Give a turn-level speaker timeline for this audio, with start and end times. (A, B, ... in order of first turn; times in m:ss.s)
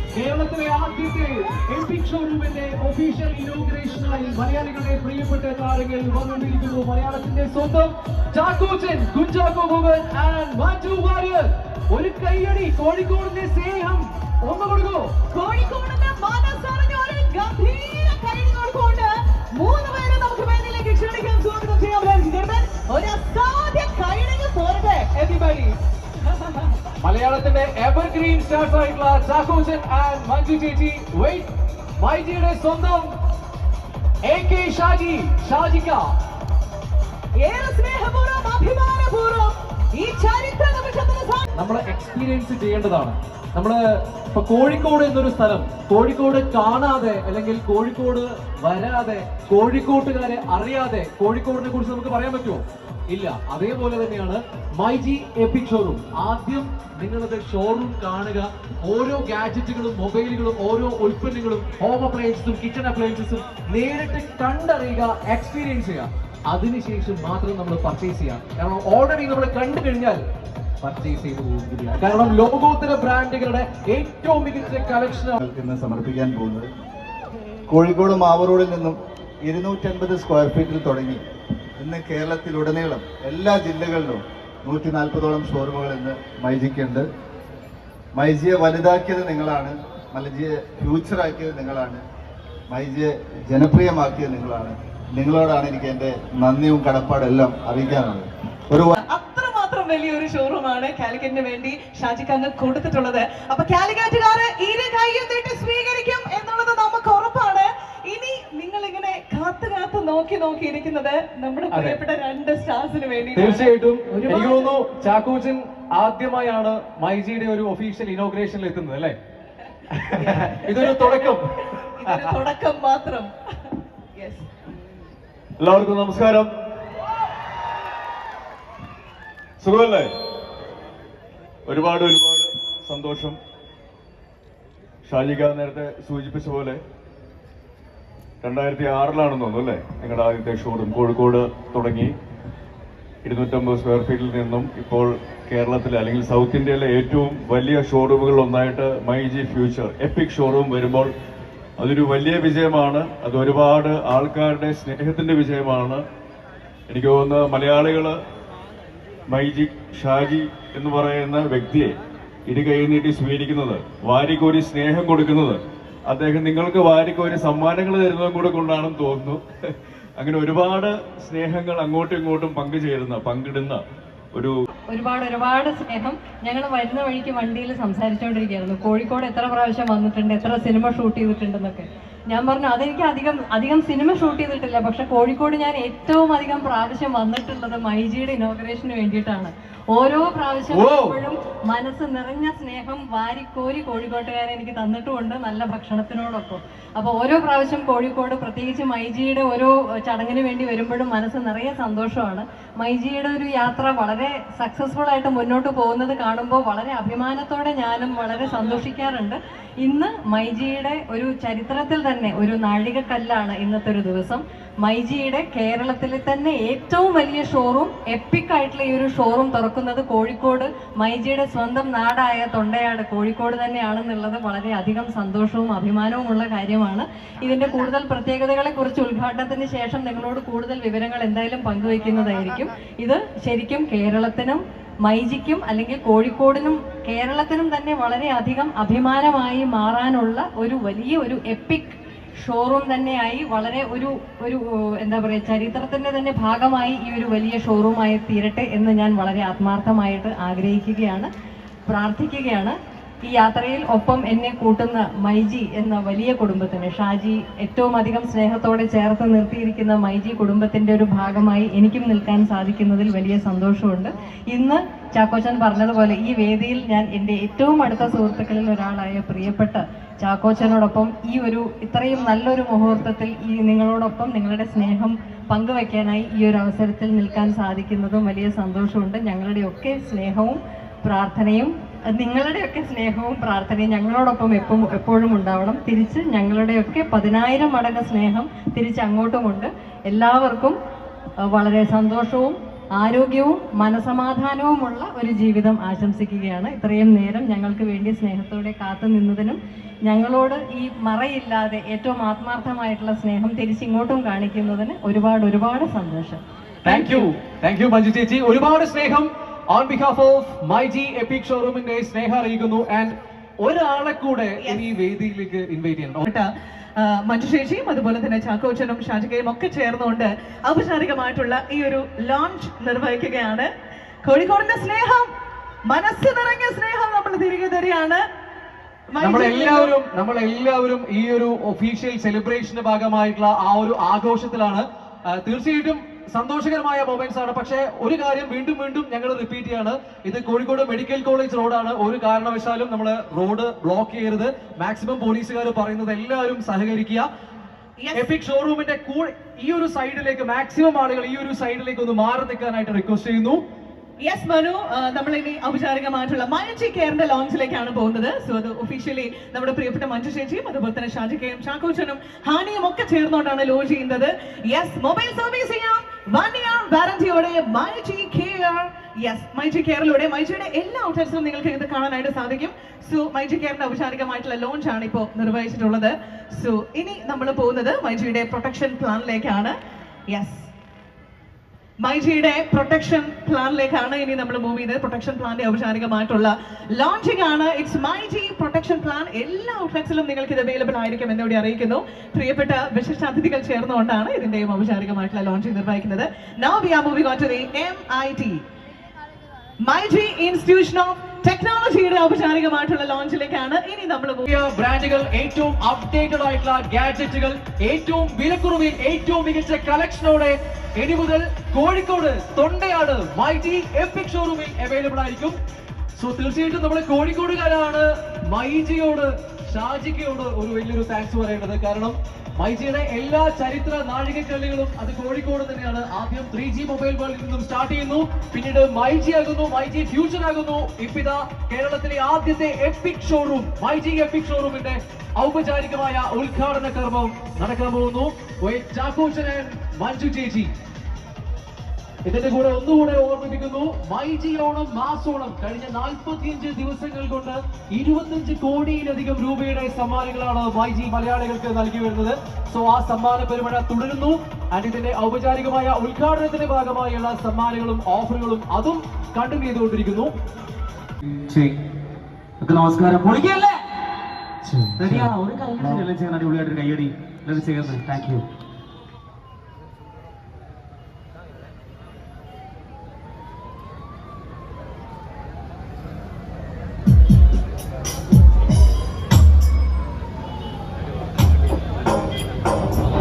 0:00.1-0:15.2 A
0:15.3-0:25.7 B
0:27.0-0:33.1 A
0:34.2-0:36.1 A
0:37.4-0:41.5 B
0:41.6-0:43.8 A
0:44.3-1:10.2 A
1:10.8-1:15.4 A
1:15.4-1:16.7 C
1:17.7-1:21.2 C
1:21.8-1:27.1 C
1:28.2-1:32.0 C
1:32.7-1:38.9 C
1:39.0-1:54.7 B
1:53.3-1:59.2 A
1:59.9-2:02.3 A
2:00.2-2:03.3 B
2:04.2-2:04.4 B
2:05.6-2:06.5 D
2:09.6-2:10.1 D
2:11.7-2:13.4 D
2:15.0-2:16.8 D
2:18.4-2:22.1 D
2:23.2-2:31.1 D
2:31.8-2:36.0 D
2:36.9-2:38.2 D
2:39.3-2:41.9 D
2:42.5-2:49.4 D
2:50.2-2:53.8 D
2:54.9-4:11.3 E
3:10.7-3:11.2 A
4:11.8-4:50.8 E
4:51.4-5:06.4 E
5:06.8-5:16.2 A
5:06.8-5:07.3 B
5:16.2-5:23.7 B
5:24.2-5:25.3 B
5:25.9-5:28.2 B
5:29.1-5:29.9 B
5:29.2-5:47.3 A
5:48.0-5:48.3 B
5:48.1-5:53.6 A
5:54.2-6:19.7 B
6:20.3-6:20.7 B
6:22.0-6:38.6 B
6:39.8-6:44.5 B
6:44.4-6:55.6 A
6:56.2-7:20.7 A
7:22.2-7:40.3 A
7:42.6-7:43.7 F
7:44.8-7:48.4 F
7:45.0-7:45.3 A